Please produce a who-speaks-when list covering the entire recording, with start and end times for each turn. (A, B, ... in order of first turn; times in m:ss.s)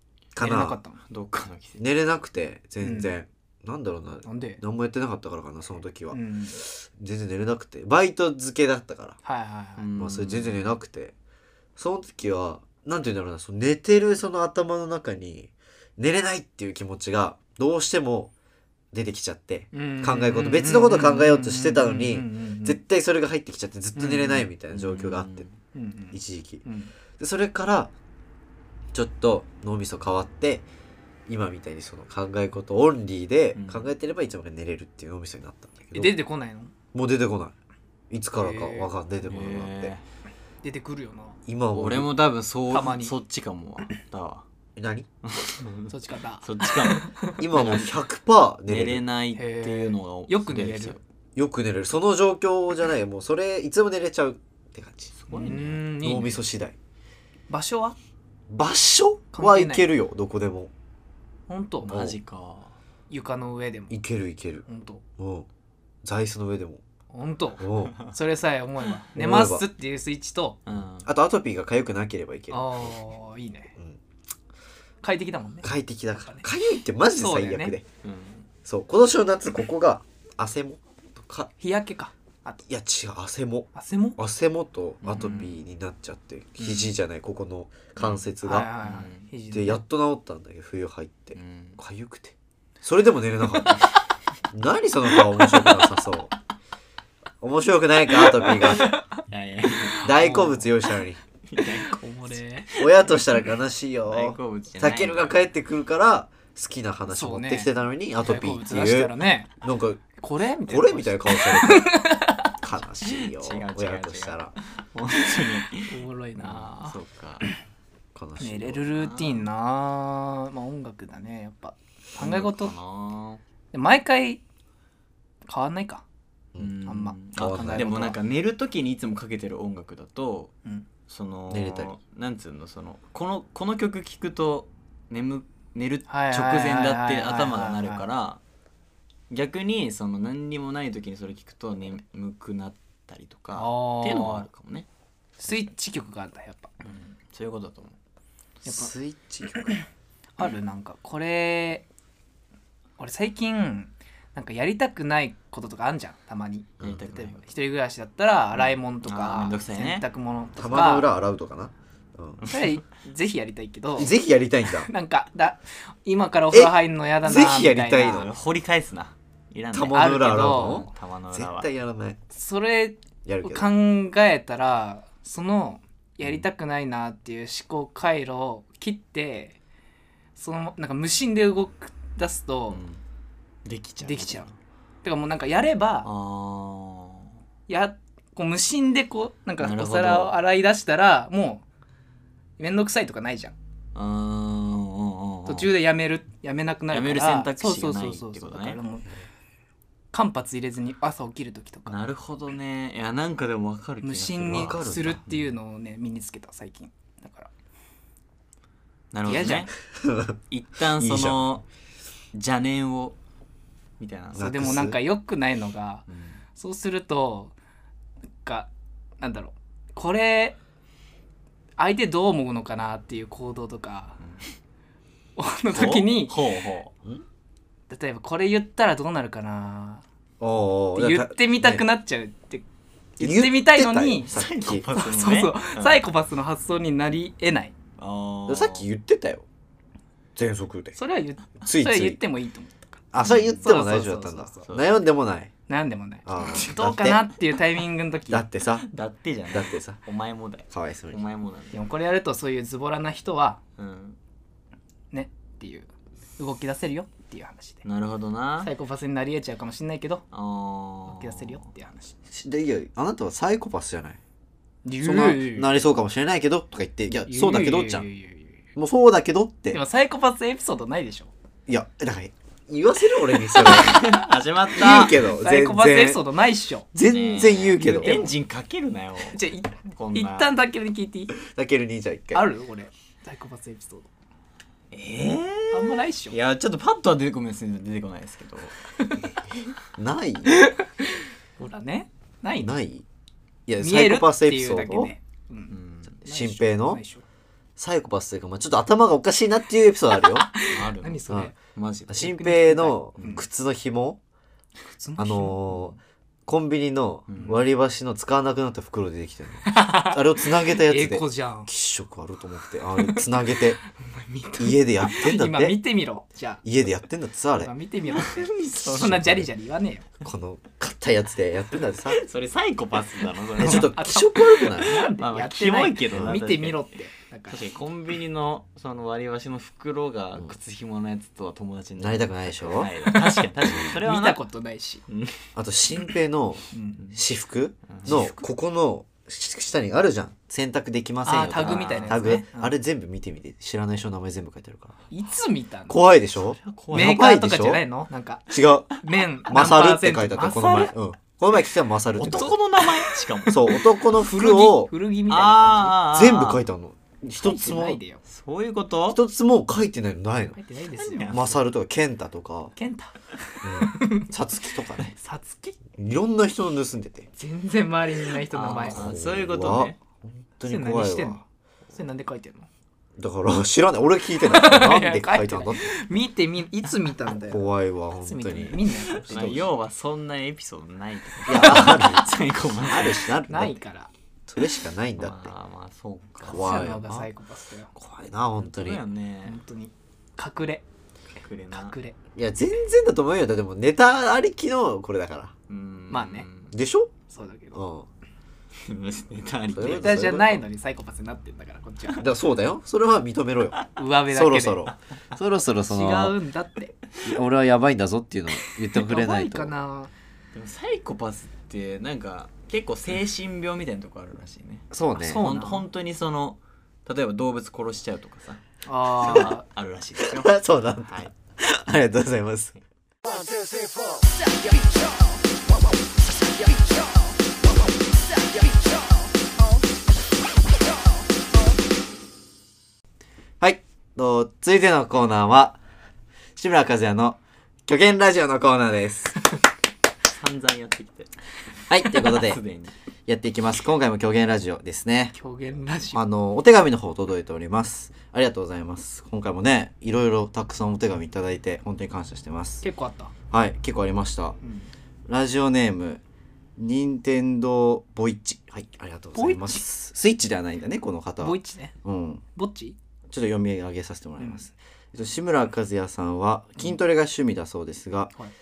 0:00.3-0:00.8 A
0:00.4-0:01.0 B
0:01.0-0:01.8 C
0:01.8-0:09.2 A
0:02.8-0:03.1 B
0:04.2-0:04.6 B
0:06.1-0:06.6 B
0:09.2-0:09.8 B
0:09.8-0:10.7 C
0:10.0-0:11.1 A
0:11.8-0:18.3 A
0:18.9-0:25.4 A
0:19.7-0:22.8 B
0:24.0-0:24.4 B
0:24.7-0:25.5 C
0:25.7-0:26.9 B
0:26.1-0:26.6 A
0:27.2-0:27.9 A
0:28.9-0:30.6 A
0:31.3-0:36.2 A
0:33.5-0:33.9 C
0:35.9-0:36.7 B
0:36.9-0:37.5 A
0:38.1-0:39.9 A
0:38.4-0:38.9 B
0:39.2-0:40.0 C
0:40.6-0:41.4 B
0:41.4-0:42.1 A
0:41.7-0:44.4 C
0:42.7-0:43.1 B
0:44.8-0:45.1 A
0:45.2-0:47.9 C
0:45.9-0:47.4 B
0:47.4-0:49.0 A
0:48.7-0:51.0 C
0:49.4-0:51.0 B
0:51.4-0:55.1 A
0:55.2-0:55.8 C
0:55.3-0:56.4 B
0:56.0-0:56.8 A
0:57.5-0:58.0 B
0:58.5-1:00.7 A
0:59.3-0:59.9 B
1:01.5-1:01.9 B
1:01.8-1:02.7 C
1:01.9-1:02.2 A
1:03.1-1:04.0 B
1:03.9-1:04.6 A
1:04.6-1:05.0 B
1:05.2-1:05.5 A
1:06.0-1:06.8 A
1:07.1-1:10.6 B
1:07.6-1:08.0 A
1:09.2-1:09.6 A
1:10.6-1:11.1 C
1:11.0-1:12.9 A
1:12.5-1:13.7 B
1:15.0-1:16.5 B
1:15.6-1:17.8 A
1:17.1-1:17.7 B
1:18.0-1:18.5 C
1:18.6-1:21.5 A
1:21.6-1:22.6 B
1:22.7-1:28.7 A
1:23.7-1:24.2 B
1:25.0-1:25.6 C
1:26.6-1:26.9 B
1:28.0-1:28.3 C
1:28.4-1:29.8 B
1:28.8-1:29.2 C
1:29.5-1:33.8 A
1:31.3-1:31.8 C
1:33.6-1:34.0 C
1:34.5-1:36.3 A
1:37.4-1:39.0 A
1:38.4-1:38.8 C
1:38.8-1:39.2 B
1:39.3-1:40.1 C
1:39.9-1:40.7 B
1:40.0-1:41.2 A
1:41.5-1:43.1 C
1:41.6-1:42.7 B
1:42.8-1:50.0 A
1:44.1-1:45.4 C
1:47.1-1:49.5 B
1:50.2-1:52.5 B
1:50.7-1:52.0 A
1:52.6-1:54.5 A
1:53.1-1:57.4 C
1:55.9-1:57.0 B
1:58.1-1:58.8 A
1:58.4-2:02.7 B
1:58.9-1:59.5 C
2:02.2-2:03.4 C
2:03.7-2:04.4 B
2:05.5-2:06.0 B
2:06.6-2:10.5 C
2:06.8-2:08.2 B
2:07.4-2:08.2 A
2:11.1-2:18.4 C
2:11.5-2:11.9 A
2:16.1-2:18.0 B
2:19.3-2:24.9 C
2:23.6-2:24.5 B
2:25.4-2:26.7 B
2:26.8-2:28.0 C
2:28.6-2:28.9 B
2:28.6-2:29.8 A
2:30.4-2:31.8 B
2:33.0-2:41.1 B
2:36.8-2:37.5 C
2:38.5-2:40.0 C
2:40.6-2:42.4 A
2:42.4-2:42.7 C
2:42.5-2:44.1 B
2:44.0-2:44.9 A
2:44.8-2:48.3 B
2:46.5-2:48.3 A
2:48.0-2:51.7 C
2:49.7-2:52.2 A
2:49.9-2:50.9 B
2:52.3-2:59.6 B
2:53.2-2:53.7 A
3:00.4-3:02.8 B
3:02.7-3:03.0 C
3:03.6-3:04.5 C
3:04.0-3:04.5 B
3:05.0-3:06.1 B
3:06.0-3:07.3 C
3:07.7-3:11.6 B
3:09.6-3:10.4 C
3:12.6-3:13.5 B
3:13.9-3:15.7 C
3:15.4-3:19.1 B
3:16.9-3:18.8 C
3:20.1-3:22.0 B
3:21.9-3:25.5 C
3:24.0-3:27.5 B
3:24.4-3:25.2 A
3:29.1-3:29.7 C
3:29.2-3:29.7 B
3:29.9-3:30.4 A
3:30.5-3:31.6 C
3:31.0-3:31.4 A
3:32.3-3:33.2 C
3:34.0-3:34.7 C
3:34.3-3:35.0 A
3:34.4-3:36.0 B
3:36.1-3:36.4 C
3:36.6-3:37.5 B
3:38.4-3:38.7 B
3:39.2-3:40.6 B
3:41.8-3:44.2 B
3:45.4-3:46.4 B
3:45.7-3:46.9 C
3:47.9-3:50.0 B
3:50.4-3:51.8 A
3:51.0-3:52.6 B
3:53.2-3:54.3 B
3:53.2-3:54.9 A
3:54.3-3:56.0 C
3:54.9-3:57.7 B
3:58.0-3:58.8 C
3:58.5-3:59.4 A
4:00.4-4:01.0 A
4:01.0-4:04.7 B
4:01.6-4:02.2 A
4:03.1-4:05.5 A
4:03.2-4:03.7 C
4:04.7-4:05.0 C
4:05.7-4:08.4 B
4:06.2-4:07.2 A
4:06.4-4:06.8 C
4:08.3-4:08.9 A
4:08.8-4:11.8 C
4:09.5-4:10.0 A
4:10.7-4:11.2 A
4:11.7-4:13.6 B
4:13.8-4:14.2 C
4:15.1-4:17.8 B
4:17.8-4:18.7 C
4:18.6-4:20.2 B
4:20.3-4:21.6 C
4:21.1-4:22.2 B
4:22.3-4:24.2 A
4:24.8-4:25.7 B
4:25.0-4:28.1 A
4:27.3-4:28.6 B
4:28.8-4:29.8 A
4:29.7-4:31.3 B
4:31.7-4:34.1 A
4:33.6-4:35.2 C
4:34.7-4:36.2 A
4:35.3-4:36.9 B
4:36.9-4:38.2 A
4:37.0-4:40.5 C
4:37.8-4:38.3 B
4:39.3-4:41.4 B
4:41.4-4:42.5 A
4:42.3-4:44.1 B
4:44.9-4:48.8 C
4:45.7-4:46.4 B
4:50.0-4:50.6 A
4:50.5-4:52.8 B
4:52.6-4:53.0 A
4:53.7-4:55.1 A
4:53.8-4:57.2 B
4:55.7-4:56.2 C
4:56.2-4:57.0 A
4:57.8-5:00.5 A
5:00.2-5:01.5 B
5:00.7-5:02.3 C
5:02.1-5:04.2 A
5:02.2-5:03.4 B
5:04.9-5:05.7 B
5:05.2-5:13.8 A
5:07.3-5:07.6 C
5:09.6-5:11.7 B
5:14.0-5:16.6 B
5:14.6-5:15.8 A
5:16.6-5:17.7 A
5:17.6-5:20.0 B
5:18.1-5:19.4 C
5:19.0-5:19.5 A
5:20.2-5:22.2 A
5:22.0-5:24.0 C
5:23.6-5:25.0 A
5:23.6-5:27.6 B
5:24.6-5:26.8 C
5:26.1-5:26.4 A
5:27.5-5:34.4 C
5:32.0-5:32.9 A
5:33.8-5:35.0 B
5:35.1-5:35.4 C
5:35.5-5:45.0 A
5:36.7-5:37.0 B
5:37.9-5:38.4 C
5:41.2-5:42.7 B
5:41.6-5:42.4 C
5:45.1-5:46.0 B
5:45.9-5:47.8 A
5:46.4-5:47.2 C
5:46.9-5:50.9 B
5:48.5-5:48.9 A
5:49.4-5:52.6 A
5:52.2-5:53.8 C
5:53.5-5:54.9 A
5:54.1-5:56.0 B
5:55.3-5:56.6 C
5:56.1-5:58.0 A
5:57.4-5:58.2 B
5:58.2-5:59.2 C
5:59.1-6:00.6 A
6:00.6-6:01.6 B
6:01.0-6:01.6 C
6:01.3-6:02.7 A
6:02.8-6:04.3 B
6:03.6-6:05.1 A
6:05.1-6:05.8 B
6:05.9-6:07.3 A
6:07.4-6:09.1 B
6:08.5-6:10.0 C
6:08.9-6:11.4 A
6:10.6-6:11.4 B
6:11.9-6:12.7 B
6:13.2-6:15.9 A
6:14.4-6:17.7 B
6:17.5-6:19.5 A
6:18.2-6:19.7 B
6:19.2-6:23.3 C
6:21.5-6:22.3 A
6:22.9-6:23.8 A
6:23.5-6:24.1 B
6:24.5-6:25.5 A
6:25.2-6:26.9 C
6:26.4-6:27.3 A
6:26.4-6:27.9 B
6:27.9-6:29.0 A
6:28.6-6:29.6 C
6:29.4-6:30.8 B
6:31.4-6:32.0 C
6:31.7-6:32.2 B
6:32.3-6:35.5 A
6:35.7-6:36.7 C
6:36.1-6:36.5 B
6:36.7-6:37.1 A
6:37.3-6:37.8 B
6:37.7-6:38.1 A
6:38.8-6:40.4 C
6:39.7-6:40.6 A
6:39.8-6:42.2 B
6:42.2-6:46.3 A
6:44.0-6:44.8 B
6:45.9-6:46.9 B
6:47.2-6:49.7 A
6:48.9-6:50.1 B
6:50.5-6:58.6 C
6:54.9-6:55.4 A
6:55.1-6:55.8 B
6:58.8-6:59.6 B
6:59.2-7:01.3 C
7:00.2-7:02.8 A
7:13.6-7:15.8 A
7:16.6-7:19.3 A
7:20.3-7:21.3 C
7:21.9-7:22.6 A
7:22.0-7:22.9 C
7:23.3-7:25.3 A
7:25.3-7:26.2 B
7:26.1-7:32.8 A
7:32.8-7:33.3 B
7:33.5-7:34.6 A
7:34.6-7:34.9 B
7:35.3-7:36.2 A
7:36.8-7:42.4 A
7:39.3-7:39.8 B
7:41.4-7:41.9 B
7:42.6-7:43.0 B
7:43.3-7:48.3 A
7:44.4-7:44.6 B